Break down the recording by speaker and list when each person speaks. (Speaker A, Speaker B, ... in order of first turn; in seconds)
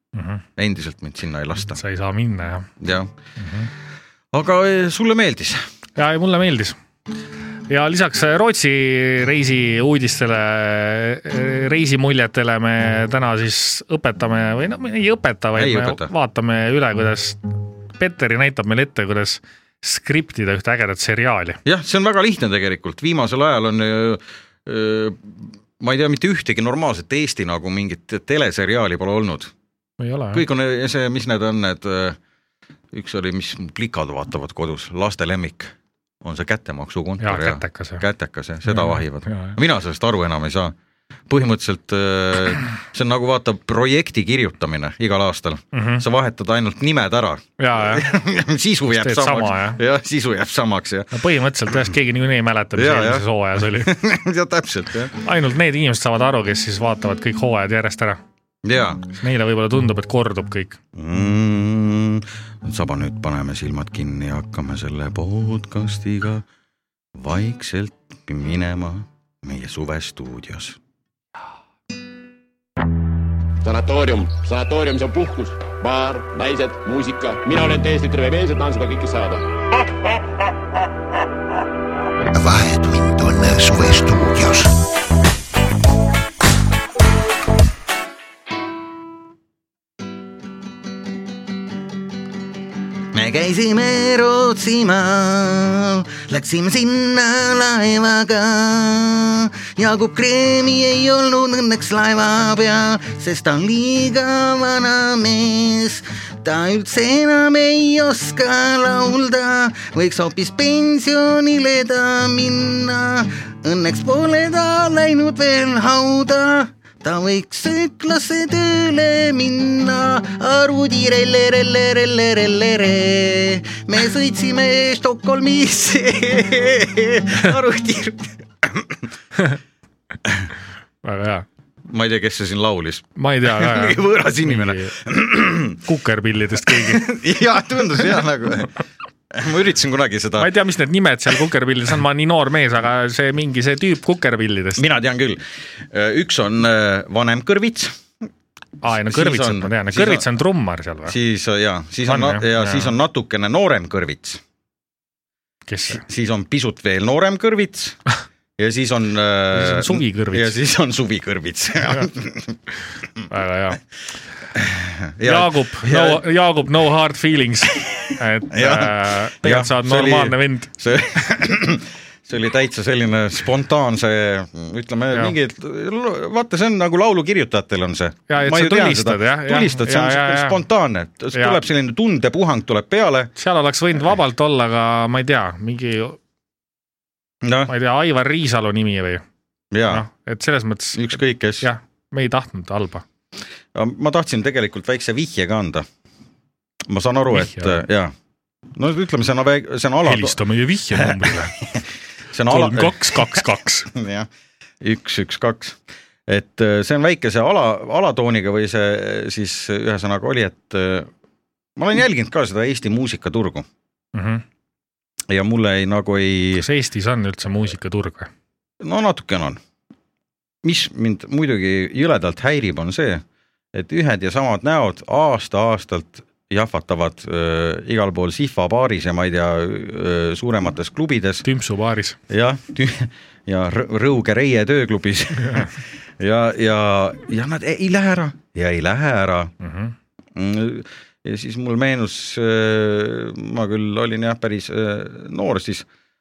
Speaker A: 0.1-0.4, 1.7-2.7, 3.4-3.7, 6.0-6.8, 7.7-17.4, 18.0-21.6, 30.0-30.4, 37.2-38.0, 38.6-39.6, 45.7-46.0, 47.6-48.1, 48.9-49.8, 51.1-53.9, 55.2-58.2, 59.2-60.8, 131.0-131.4, 133.2-134.9, 135.8-137.1, 140.4-144.8, 148.8-151.1, 152.1-152.9, 155.7-156.0, 159.5-160.5, 163.3-163.8, 165.2-170.7, 178.3-180.6, 181.3-181.6, 183.3-186.2, 187.7-189.2, 189.9-193.0, 197.3-197.8, 200.0-201.6, 202.5-203.9, 214.1-214.4, 216.6-218.3, 231.4-232.2, 235.4-235.7, 239.6-239.9
Speaker B: 0.6-1.8, 2.8-3.1, 4.3-5.6, 15.6-16.1, 21.6-29.5, 30.3-32.2, 32.9-40.7, 41.3-51.1, 52.7-55.2, 58.6-59.1, 60.9-66.5, 67.1-70.8, 93.1-129.0, 131.9-135.8, 136.6-140.5, 144.8-148.0, 148.8-150.2, 151.1-154.4, 155.9-158.0, 158.6-162.5, 164.5-166.2, 167.7-183.3, 187.4-187.7, 189.7-190.0, 190.9-191.7, 193.7-195.8, 196.9-198.1, 198.7-200.4, 200.9-204.3, 204.8-211.1, 211.8-213.7, 215.3-216.7, 218.8-219.6, 220.6-223.2, 223.7-231.4, 232.3-239.5, 240.3-245.9
Speaker C: 73.6-79.4
Speaker D: 82.3-84.7